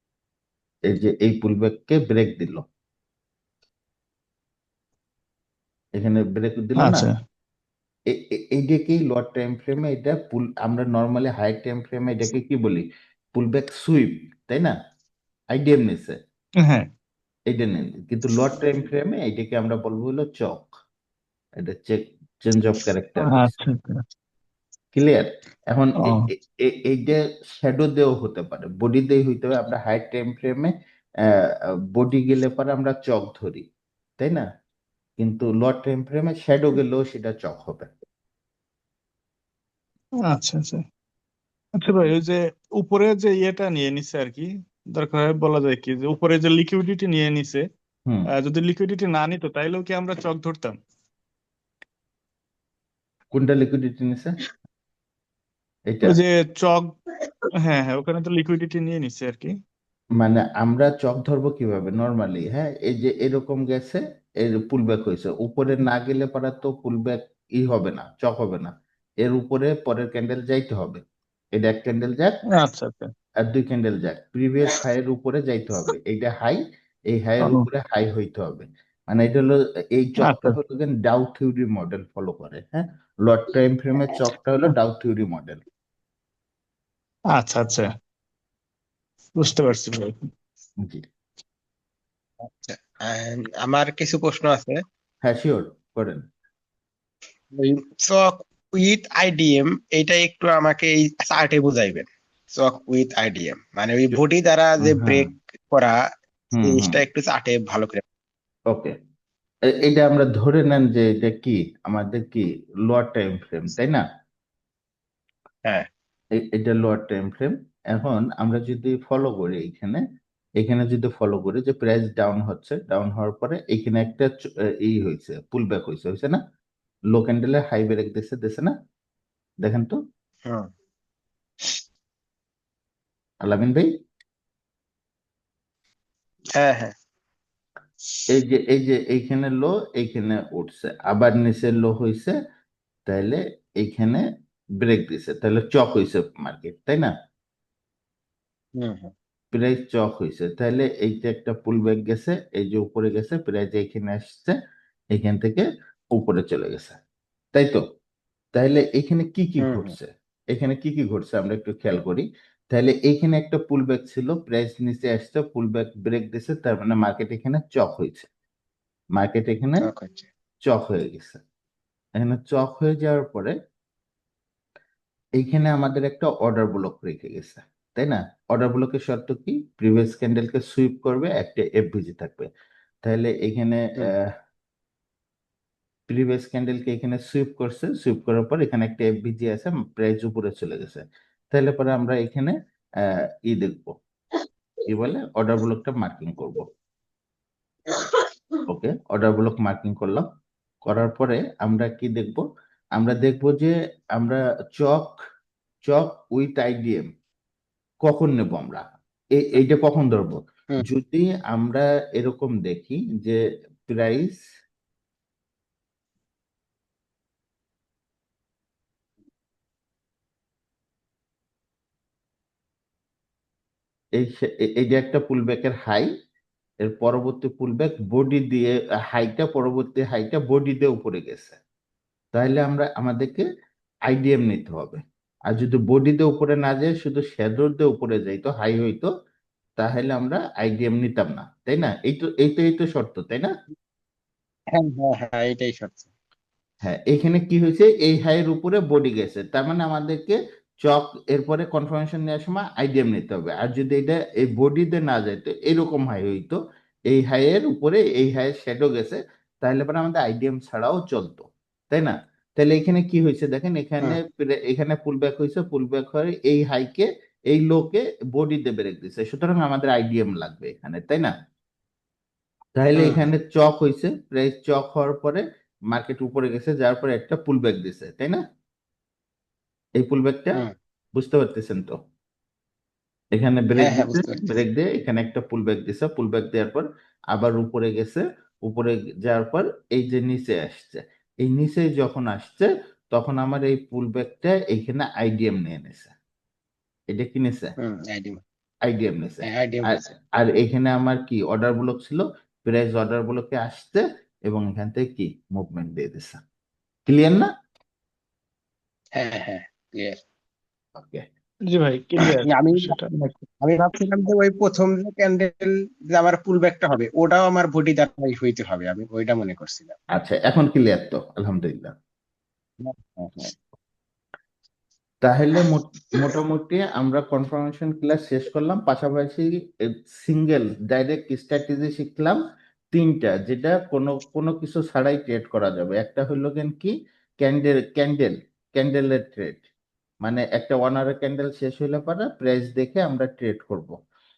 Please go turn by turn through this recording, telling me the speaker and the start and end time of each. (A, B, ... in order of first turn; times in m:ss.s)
0:00.9-0:02.7 A
0:06.0-0:07.1 A
0:06.8-0:07.2 B
0:08.1-0:14.8 A
0:15.5-0:16.2 A
0:17.5-0:20.8 A
0:21.6-0:23.5 A
0:23.2-0:24.0 B
0:24.9-0:30.7 A
0:26.0-0:26.3 B
0:31.3-0:33.7 A
0:34.2-0:34.4 A
0:35.2-0:37.9 A
0:40.3-0:40.8 B
0:41.8-0:47.6 B
0:48.3-0:50.8 B
0:53.3-0:54.3 A
0:55.9-0:56.2 A
0:56.1-0:57.0 B
0:57.7-0:59.6 B
1:00.2-1:08.7 A
1:09.2-1:11.0 A
1:11.6-1:12.4 A
1:12.5-1:13.1 B
1:13.4-1:25.6 A
1:20.2-1:20.6 B
1:27.3-1:27.9 B
1:29.4-1:30.2 B
1:32.4-1:34.8 C
1:35.2-1:36.2 A
1:37.6-1:46.0 C
1:44.8-1:45.3 A
1:46.6-1:47.0 A
1:46.6-1:48.0 C
1:49.8-1:54.0 A
1:56.4-2:00.0 A
2:00.6-2:06.4 A
2:07.1-2:08.7 A
2:09.6-2:10.0 A
2:13.4-2:13.9 A
2:16.6-2:16.9 C
2:18.3-2:22.3 A
2:23.1-2:24.2 A
2:24.8-2:27.1 A
2:28.8-2:29.1 C
2:29.5-2:34.6 A
2:35.1-2:37.0 A
2:37.5-2:37.8 A
2:38.5-2:48.3 A
2:39.6-2:39.9 C
2:49.2-2:49.9 A
2:49.8-2:50.3 C
2:50.6-2:51.4 A
2:52.2-2:53.6 A
2:55.4-3:02.5 A
3:03.0-3:04.3 A
3:06.1-3:12.5 A
3:13.5-3:14.0 A
3:14.9-3:16.7 A
3:17.9-3:18.2 C
3:18.7-3:20.3 A
3:20.9-3:22.4 A
3:23.0-3:25.1 A
3:25.8-3:27.1 A
3:28.0-3:34.4 A
3:44.2-3:46.1 A
3:46.9-3:51.6 A
3:52.3-3:53.4 A
3:54.1-3:59.1 A
3:59.8-4:03.5 A
4:04.8-4:06.1 C
4:06.8-4:31.3 A
4:32.8-4:38.4 A
4:33.0-4:33.2 C
4:40.0-4:40.6 A
4:41.2-4:42.0 A
4:43.4-4:56.1 A
4:43.8-4:44.6 C
4:57.1-4:57.7 A
4:57.8-4:58.4 C
4:58.9-5:06.4 A
4:59.4-5:00.1 C
5:07.1-5:07.5 A
5:09.2-5:10.2 C
5:11.0-5:11.3 A
5:11.7-5:13.4 B
5:12.2-5:13.0 C
5:13.6-5:20.0 C
5:20.1-5:21.9 A
5:22.8-5:23.5 C
5:25.2-5:32.4 A
5:32.9-5:39.6 A
5:40.2-5:44.0 A